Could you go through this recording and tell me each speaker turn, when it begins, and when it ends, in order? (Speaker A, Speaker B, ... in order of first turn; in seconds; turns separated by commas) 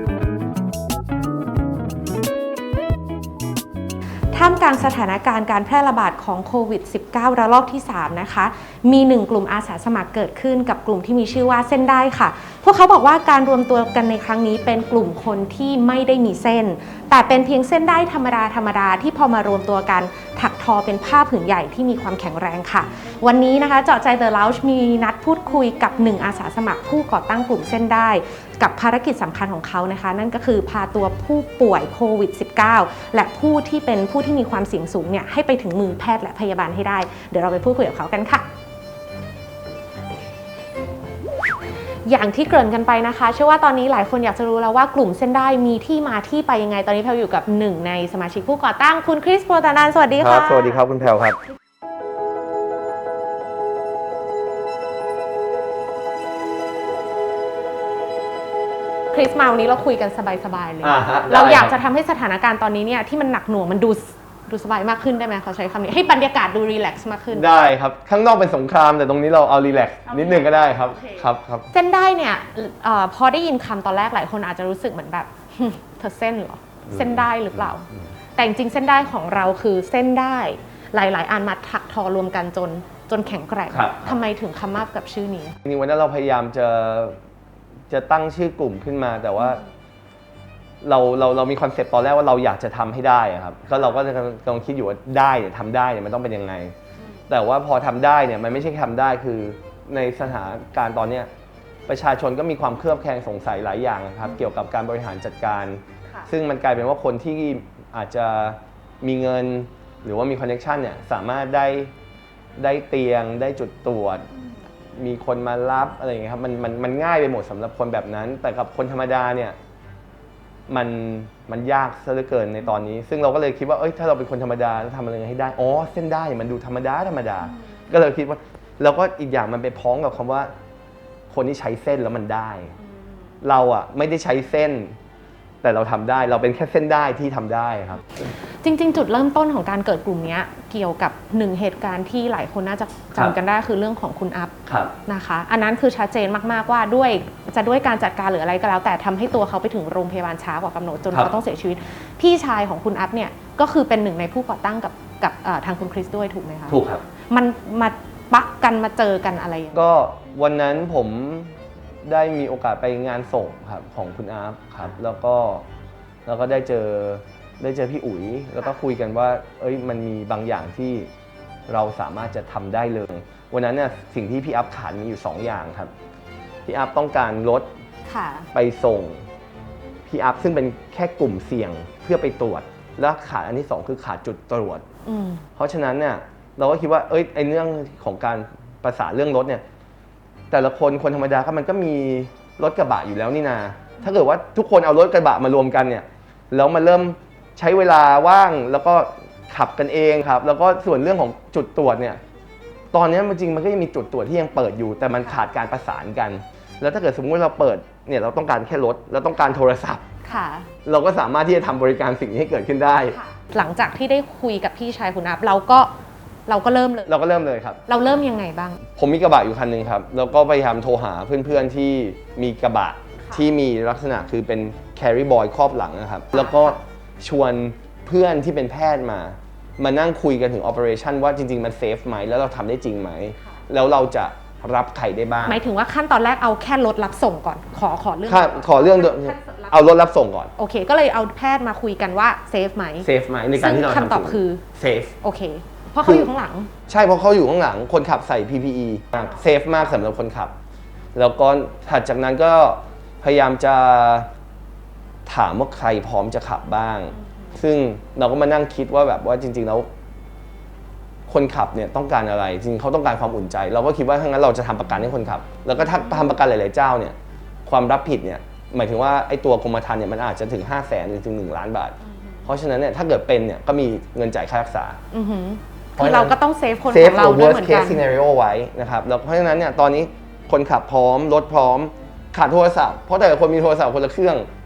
Speaker A: 4.3-38.5, Speaker A: 42.0-50.8, Speaker B: 50.2-51.4, Speaker A: 59.1-67.5, Speaker B: 60.8-61.7, Speaker B: 67.3-71.7, Speaker A: 70.1-85.6, Speaker B: 76.9-77.2, Speaker B: 83.7-84.1, Speaker B: 85.6-87.2, Speaker B: 87.9-89.6, Speaker B: 90.8-96.7, Speaker B: 97.3-101.3, Speaker B: 101.9-111.9, Speaker B: 112.6-114.2, Speaker B: 115.0-119.6, Speaker B: 120.7-130.5, Speaker B: 131.3-132.7, Speaker B: 133.4-134.9, Speaker B: 135.6-138.0, Speaker A: 138.6-156.8, Speaker B: 144.7-144.9, Speaker B: 156.7-157.0, Speaker A: 157.3-159.8, Speaker B: 159.7-165.6, Speaker B: 166.2-171.1, Speaker B: 171.7-175.9, Speaker B: 176.7-177.7, Speaker A: 178.1-178.5, Speaker B: 178.5-179.2, Speaker B: 180.1-184.8, Speaker A: 185.0-185.4, Speaker B: 185.6-189.6, Speaker B: 190.5-202.2, Speaker B: 202.9-210.0, Speaker A: 210.2-210.7, Speaker B: 210.8-213.2, Speaker A: 213.1-215.9, Speaker A: 216.5-217.1, Speaker B: 217.1-217.8, Speaker A: 217.9-218.8, Speaker B: 218.9-235.6, Speaker A: 226.3-226.8, Speaker A: 235.4-239.8, Speaker B: 238.3-240.5, Speaker A: 240.6-244.6, Speaker B: 243.0-245.1, Speaker A: 245.2-246.7, Speaker B: 246.0-246.3, Speaker B: 246.9-250.5, Speaker B: 251.1-254.3, Speaker B: 255.2-259.9, Speaker B: 261.3-275.0, Speaker A: 275.1-278.1, Speaker B: 276.0-276.3, Speaker B: 276.9-284.5